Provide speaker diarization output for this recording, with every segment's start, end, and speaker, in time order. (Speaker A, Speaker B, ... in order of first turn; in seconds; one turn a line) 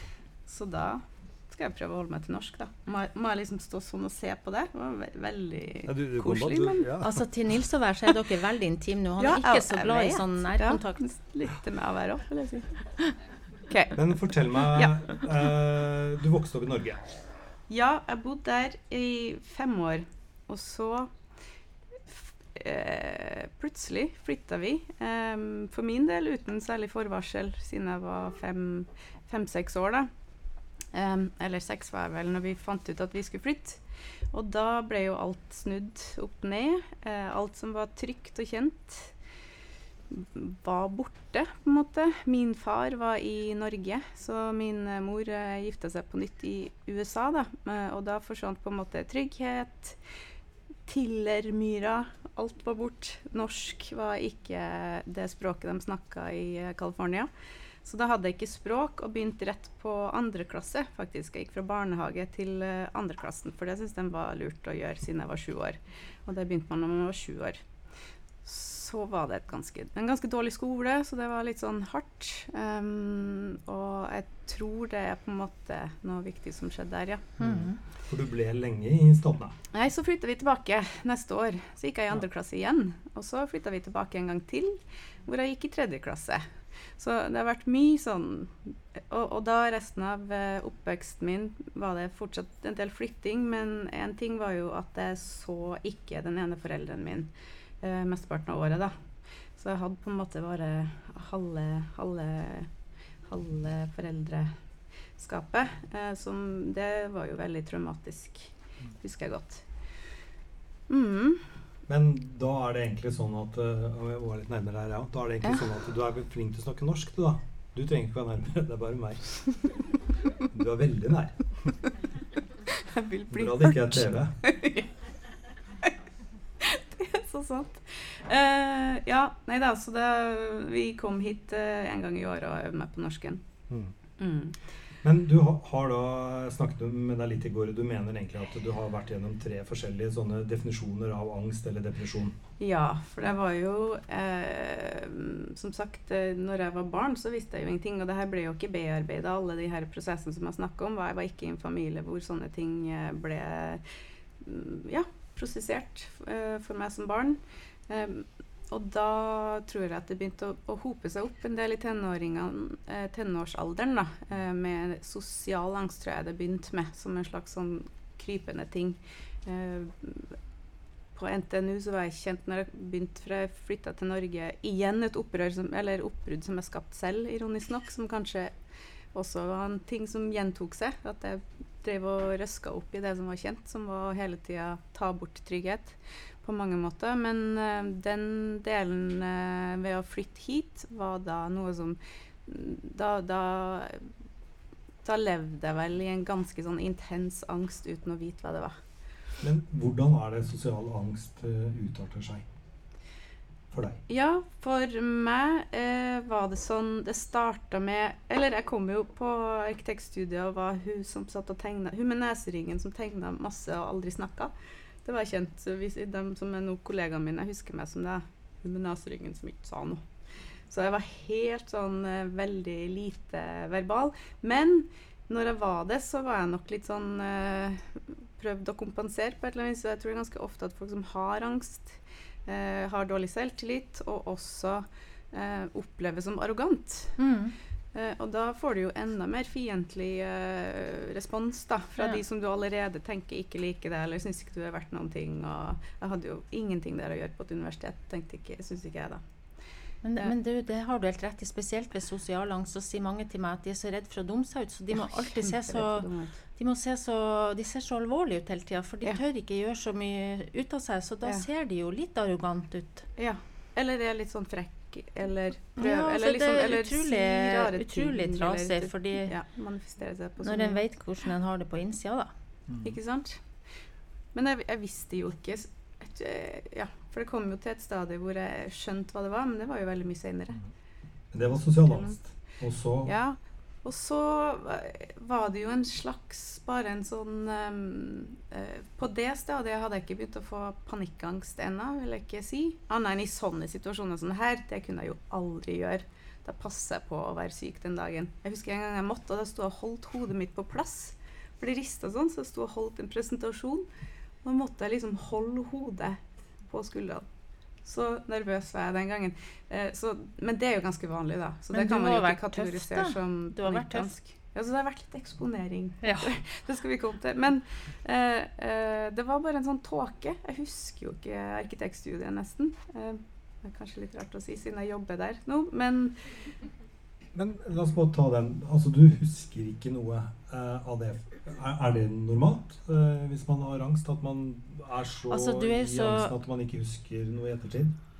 Speaker A: 0.5-6.9
Speaker B: 5.8-7.2
Speaker C: 7.0-11.0
Speaker A: 9.2-12.8
Speaker A: 13.7-14.1
Speaker B: 13.9-17.0
Speaker A: 14.7-15.2
Speaker A: 17.7-21.1
Speaker A: 22.1-30.1
Speaker A: 30.9-39.1
Speaker A: 40.1-50.0
Speaker A: 50.9-57.3
Speaker A: 57.8-67.6
Speaker A: 68.4-77.3
Speaker C: 77.4-77.8
Speaker B: 77.4-79.6
Speaker A: 79.7-86.4
Speaker A: 87.0-97.3
Speaker A: 97.8-98.9
Speaker A: 99.6-102.7
Speaker A: 103.3-104.5
Speaker A: 105.2-109.7
Speaker A: 110.9-111.4
Speaker B: 111.9-119.6
Speaker B: 120.5-121.7
Speaker A: 122.8-124.9
Speaker B: 123.3-124.3
Speaker A: 126.6-133.4
Speaker A: 134.2-134.6
Speaker B: 135.0-142.4
Speaker A: 142.6-153.9
Speaker A: 154.4-170.3
Speaker A: 171.1-178.5
Speaker A: 179.1-194.1
Speaker A: 195.0-198.8
Speaker B: 199.4-202.4
Speaker B: 203.7-204.0
Speaker A: 204.1-214.5
Speaker A: 215.0-220.0
Speaker A: 220.7-237.2
Speaker C: 237.2-237.5
Speaker A: 237.9-249.2
Speaker C: 250.0-263.1
Speaker A: 255.0-256.4
Speaker A: 263.2-270.8
Speaker C: 265.8-269.3
Speaker C: 270.4-272.3
Speaker B: 272.7-272.9
Speaker A: 272.8-273.4
Speaker A: 274.3-280.6
Speaker B: 281.3-283.1
Speaker A: 283.1-303.9
Speaker A: 304.4-307.2
Speaker A: 307.8-326.4
Speaker C: 311.7-314.1
Speaker C: 316.0-316.3
Speaker B: 327.3-338.0
Speaker C: 335.3-336.3